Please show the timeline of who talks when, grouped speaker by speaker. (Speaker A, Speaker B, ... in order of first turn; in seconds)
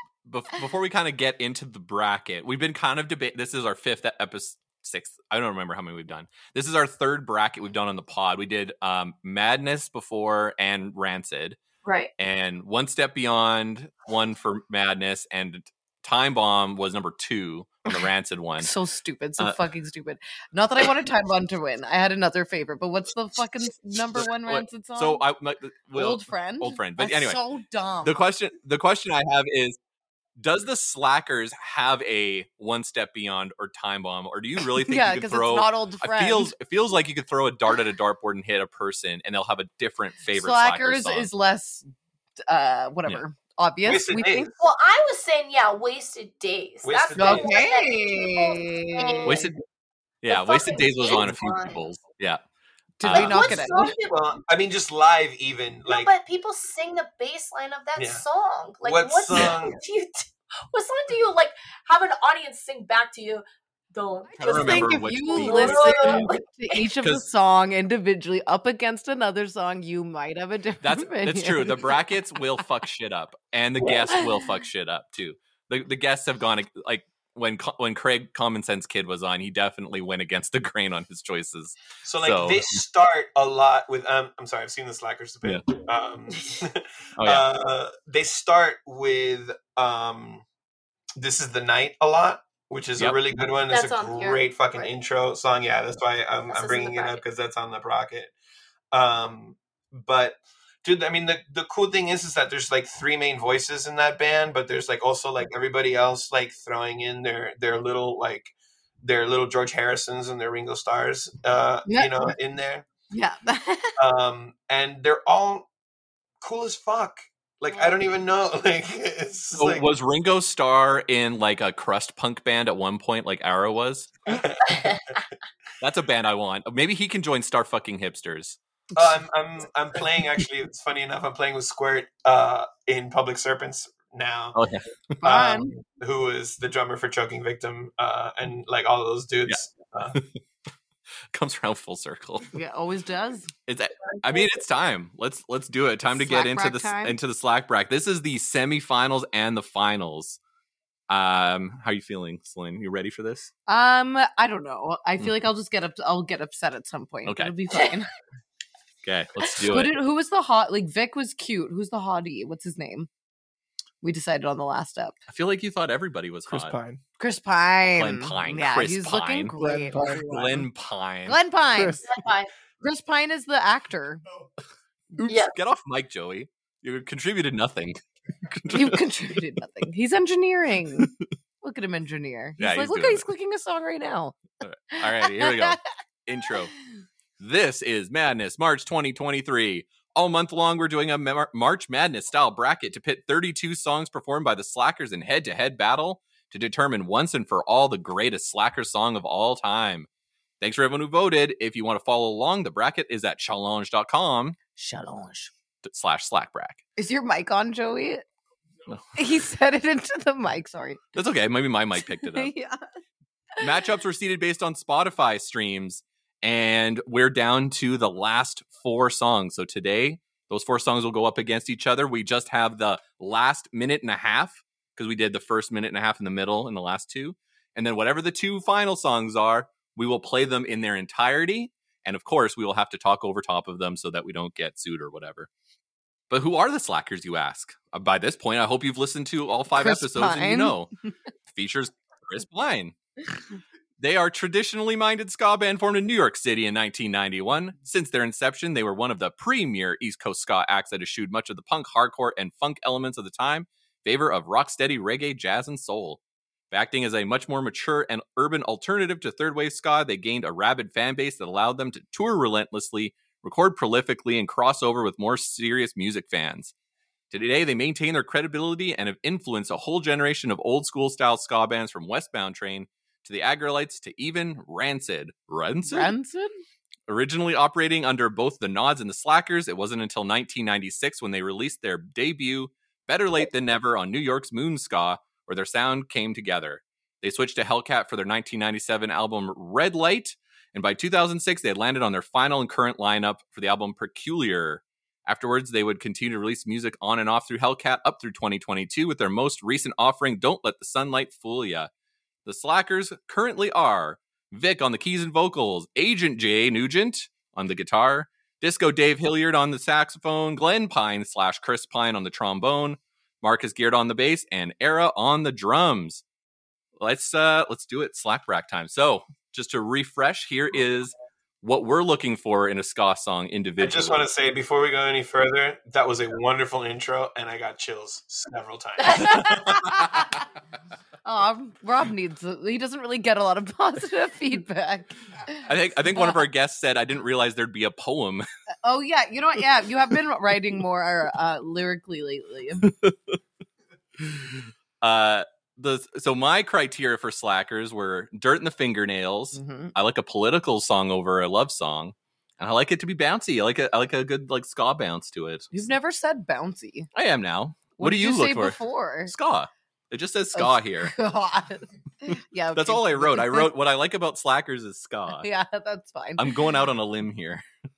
Speaker A: 0.2-11.6, 12.2-18.7, 24.1-27.4, 28.0-29.8, 30.4-41.3, 49.2-49.6, 50.2-52.4, 53.0-53.4, 64.4-66.3, 70.8-82.8, 87.2-87.4, 119.5-124.4, 125.8-128.6, 134.5-135.2, 140.1-140.4, 141.3-142.5, 143.7-150.4, 151.1-153.5, 157.2-157.5, 159.0-159.9, 165.3-166.7, 168.0-169.5, 170.3-171.4, 175.5-179.0, 182.6-183.3, 184.6-186.7, 187.4-200.1, 200.6-204.6, 205.8-206.8, 208.9-209.2, 211.1-212.5, 213.6-235.5, 236.3-240.9, 241.5-242.9, 244.0-256.2, 256.7-266.7, 267.3-276.1, 277.1-301.9, 302.4-316.2, 317.0-324.3, 335.6-338.4, 342.8-343.4, 344.4-355.7, 357.1-361.1, 362.3-365.5, 366.4-367.6
Speaker B: 11.8-12.1, 44.6-49.5, 50.3-51.8, 53.1-54.2, 55.9-66.8, 93.7-94.9, 96.5-97.2, 117.7-118.1, 124.7-125.0, 172.0-172.5, 175.2-175.5, 329.0-329.8
Speaker C: 18.6-25.2, 25.9-28.2, 34.8-36.5, 40.3-41.8, 42.5-44.5, 47.1-49.4, 53.0-53.9, 64.3-72.0, 111.9-112.3, 113.1-113.9, 135.2-135.7, 142.5-143.5, 146.1-147.2, 153.7-158.1, 159.7-163.1, 164.0-165.1, 167.2-170.6, 171.2-172.1, 172.8-174.2, 178.7-184.4, 185.0-185.8, 204.8-205.5, 207.0-208.2, 209.1-211.0, 212.2-212.8, 239.7-241.1, 275.8-276.5, 329.9-330.4, 331.2-336.4, 338.8-342.9, 349.5-349.9, 355.7-357.1, 358.0-359.3, 360.5-363.7, 365.4-366.5
Speaker D: 43.8-44.5, 46.8-47.8, 53.1-56.1, 58.0-58.2, 58.8-59.8, 82.0-90.4, 91.2-98.3, 98.9-112.8, 114.0-115.7, 116.4-119.9, 124.3-124.8, 128.9-134.6, 135.2-140.2, 323.8-330.2
Speaker E: 166.5-167.0, 169.6-170.6, 171.7-172.2